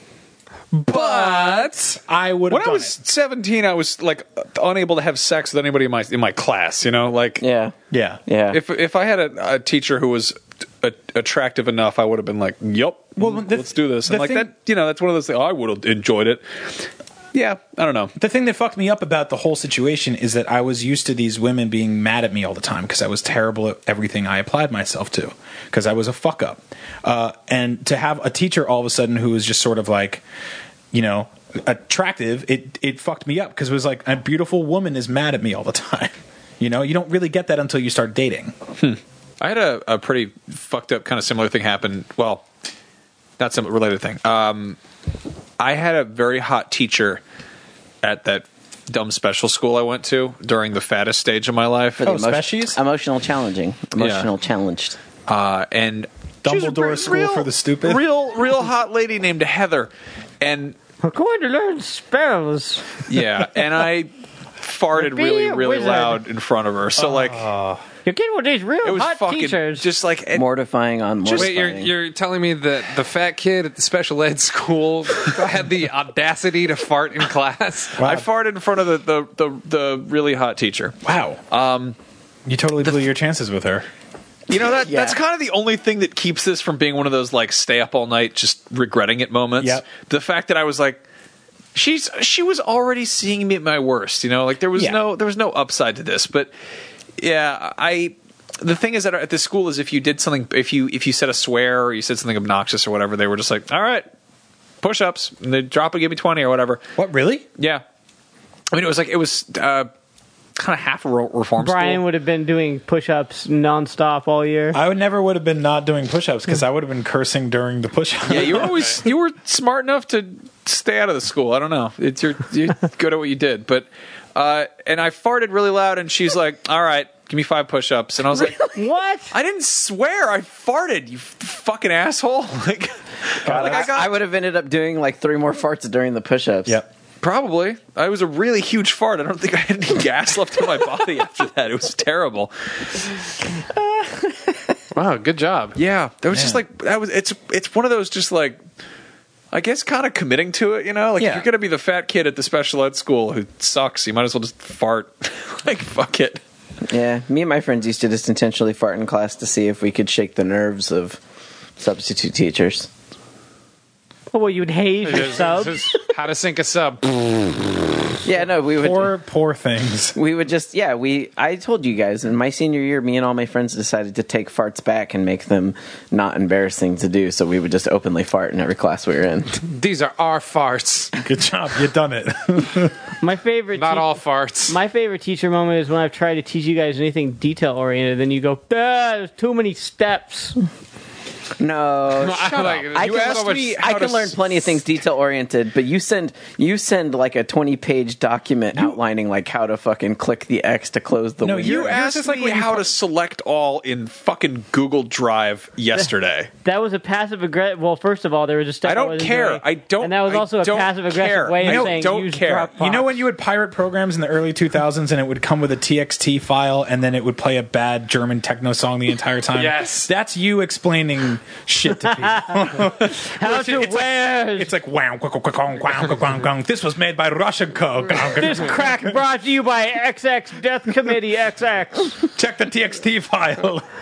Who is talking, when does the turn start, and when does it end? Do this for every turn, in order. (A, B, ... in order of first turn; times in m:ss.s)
0:00.8-0:02.9 A
0:00.8-0:02.0 B
0:02.5-0:07.4 C
0:07.4-0:08.6 D
0:07.9-0:08.2 A
0:08.5-0:18.1 C
0:13.2-0:14.5 A
0:18.2-0:30.2 A
0:30.9-0:38.5 A
0:38.8-0:42.4 C
0:43.4-0:44.8 C
0:45.6-0:47.2 C
0:48.0-0:52.0 C
0:52.0-0:55.0 D
0:52.0-0:52.8 A
0:54.0-0:54.3 C
0:55.3-1:00.8 C
0:56.4-0:58.0 A
1:01.0-1:03.0 E
1:03.1-1:07.5 C
1:04.9-1:06.2 E
1:07.0-1:07.8 A
1:08.0-1:09.9 E
1:08.8-1:10.4 C
1:10.3-1:11.9 D
1:11.2-1:11.5 C
1:11.3-1:18.0 B
1:18.0-1:18.3 A
1:18.0-1:21.0 C
1:21.0-1:21.4 A
1:21.5-1:22.0 C
1:22.4-1:23.9 A
1:24.5-1:31.0 C
1:24.6-1:25.2 D
1:29.6-1:29.8 A
1:31.7-1:36.5 C
1:37.2-1:44.1 C
1:44.8-1:46.8 C
1:47.0-1:47.5 A
1:47.6-1:47.8 C
1:48.7-1:49.9 C
1:50.6-1:52.0 C
1:51.6-1:54.8 E
1:54.7-1:58.9 A
1:58.3-2:08.7 C
2:08.6-2:09.3 E
2:09.3-2:14.2 C
2:13.4-2:13.9 A
2:13.4-2:16.8 D
2:17.2-2:22.5 C
2:24.9-2:25.8 B
2:25.7-2:28.6 C
2:26.3-2:26.6 A
2:29.5-2:36.4 C
2:31.2-2:31.5 A
2:36.9-2:41.2 D
2:41.8-2:42.9 D
2:44.3-2:45.9 E
2:45.0-2:47.5 B
2:48.2-2:49.1 D
2:48.7-2:50.2 A
2:50.2-2:59.6 D
2:59.6-3:01.1 B
3:01.2-3:02.9 A
3:03.2-3:10.6 E
3:03.7-3:04.8 B
3:11.6-3:21.9 D
3:12.2-3:13.8 B
3:12.9-3:14.7 C
3:21.4-3:22.9 A
3:21.6-3:26.5 C
3:26.6-3:33.2 E
3:28.8-3:32.7 C
3:31.6-3:49.1 A
3:39.5-3:40.1 B
3:42.2-3:42.5 E
3:43.2-3:44.7 E
3:48.2-3:52.2 E
3:52.3-3:53.8 A